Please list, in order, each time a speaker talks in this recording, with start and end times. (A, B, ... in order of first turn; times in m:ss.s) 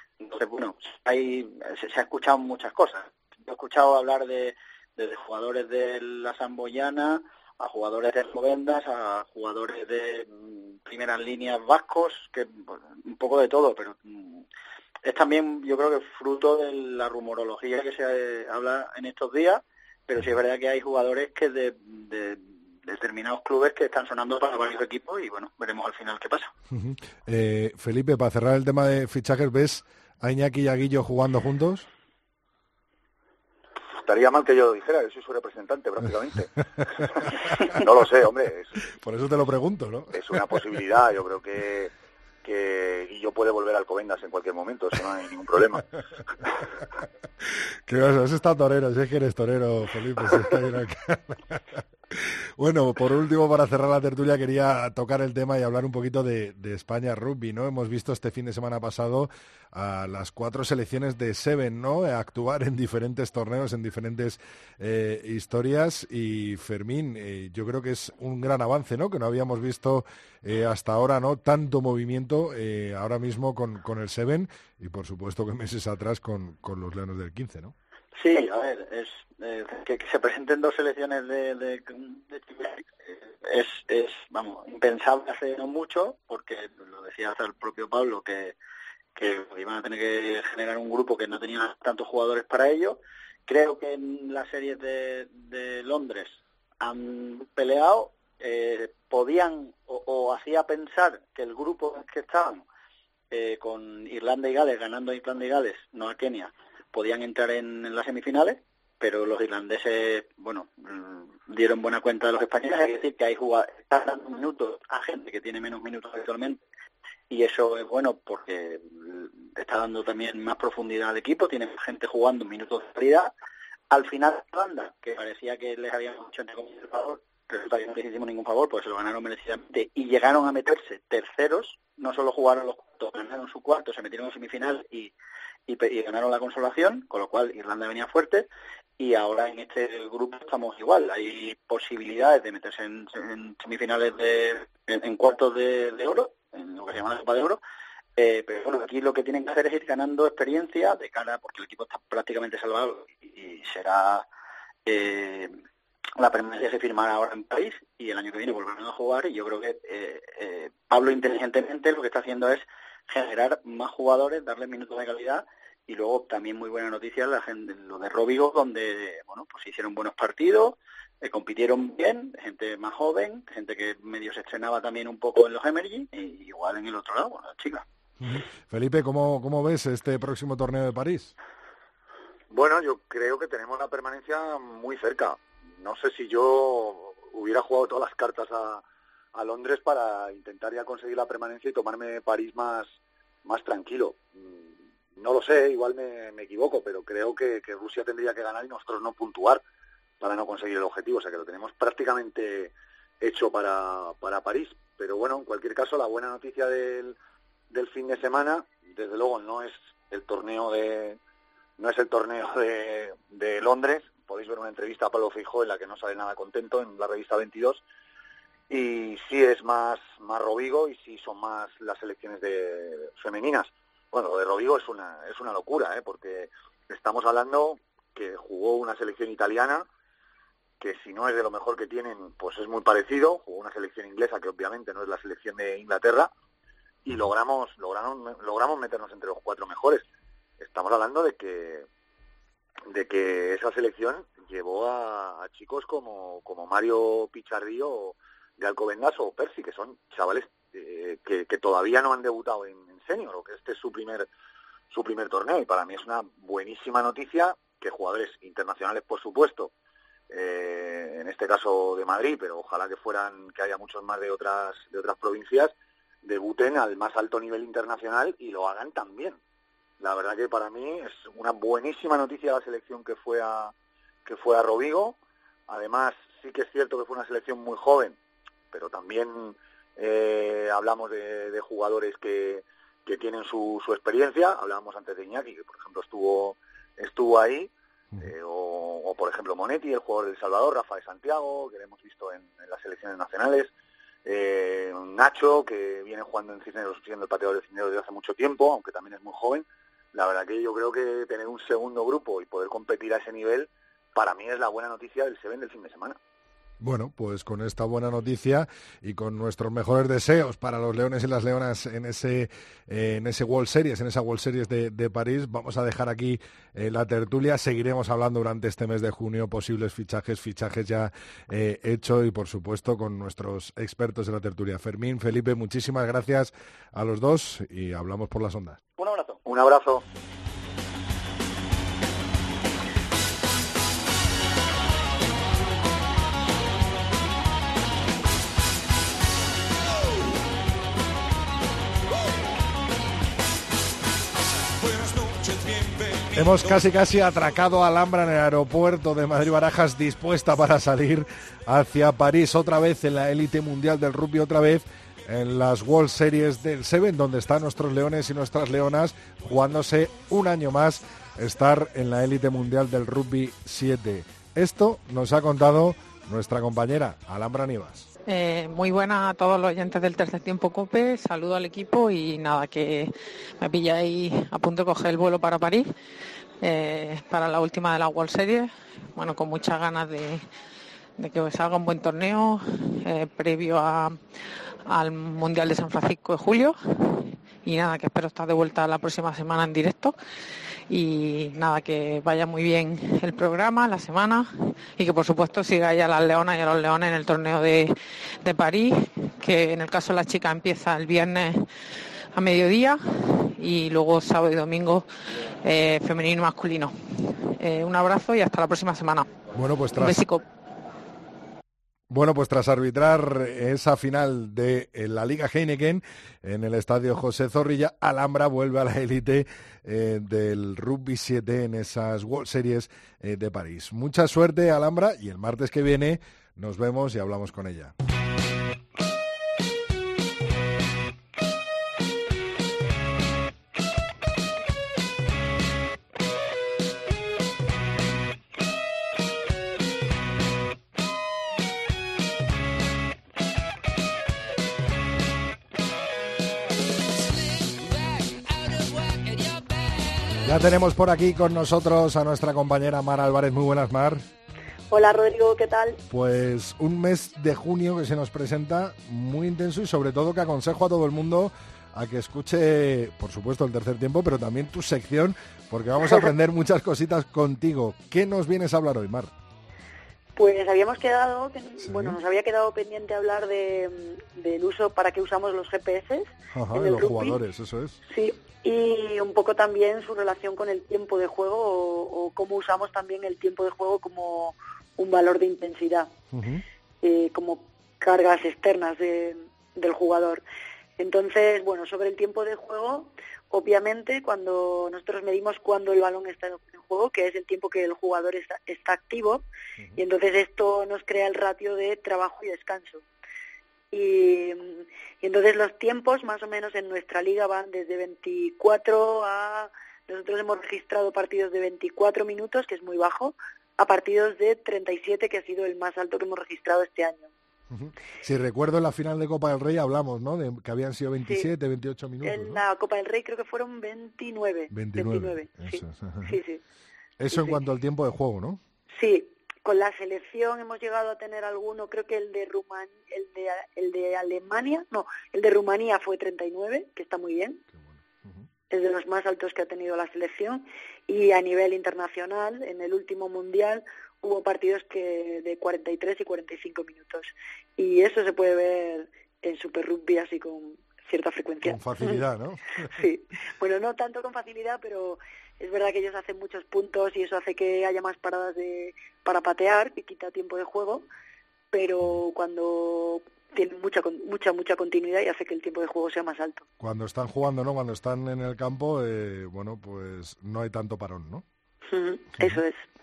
0:00.2-0:14.4 A
0:15.0-0:26.5 A
0:26.7-0:31.9 B
0:34.0-0:38.8 C
0:39.0-0:40.2 B
0:40.1-0:41.9 C
0:42.4-0:45.8 C
0:47.9-0:51.8 B
0:52.6-1:17.7 B
1:18.2-1:28.6 A
1:29.2-1:42.6 A
1:43.3-1:56.6 A
1:57.3-2:03.3 A
2:03.9-2:15.1 A
2:15.7-2:27.6 A
2:28.2-2:34.3 A
2:34.9-2:35.6 A
2:36.2-2:57.8 A
2:58.2-3:01.3 B
3:02.5-3:08.8 C
3:09.3-3:19.6 C
3:20.2-3:27.2 C
3:27.7-3:31.2 C
3:31.8-3:37.8 C
3:38.7-3:49.9 C
3:50.8-3:56.3 C
3:57.0-4:00.0 C
4:00.6-4:01.9 C
4:02.9-4:14.3 C
4:14.9-4:19.7 C
4:20.3-4:29.4 C
4:30.0-4:33.7 C
4:34.2-4:38.2 C
4:38.7-4:53.7 C
4:54.2-5:06.2 C
5:06.8-5:28.8 B
5:29.0-5:29.4 A
5:29.5-5:30.0 C
5:46.3-6:08.1 B
6:08.3-6:15.9 D
6:16.6-6:20.4 D
6:21.2-6:24.2 D
6:24.9-6:30.2 D
6:30.9-6:41.6 D
6:42.4-6:45.1 D
6:45.6-6:46.9 D
6:47.6-6:49.3 D
6:49.6-6:50.2 B
6:50.0-6:50.4 D
6:52.1-7:07.9 B
7:30.4-7:34.2 B
7:34.9-7:36.0 E
7:36.1-7:49.3 B
7:50.4-7:57.4 E
7:51.8-7:52.2 B
7:56.5-7:58.0 B
7:58.0-8:06.1 E
8:06.3-8:06.6 B
8:07.0-8:10.4 E
8:11.0-8:19.5 E
8:20.0-8:23.0 E
8:23.9-8:37.3 E
8:37.7-8:42.6 B
8:41.2-8:41.5 E
8:42.2-8:46.6 E
8:44.7-8:46.3 B
8:47.2-8:48.6 B
8:47.3-8:47.6 E
8:49.0-8:57.6 E
8:57.7-8:58.5 B
8:58.7-9:12.3 E
9:11.6-9:12.7 B
9:12.9-9:21.1 E
9:21.7-9:26.7 E
9:26.8-9:31.4 B
9:31.9-9:32.8 E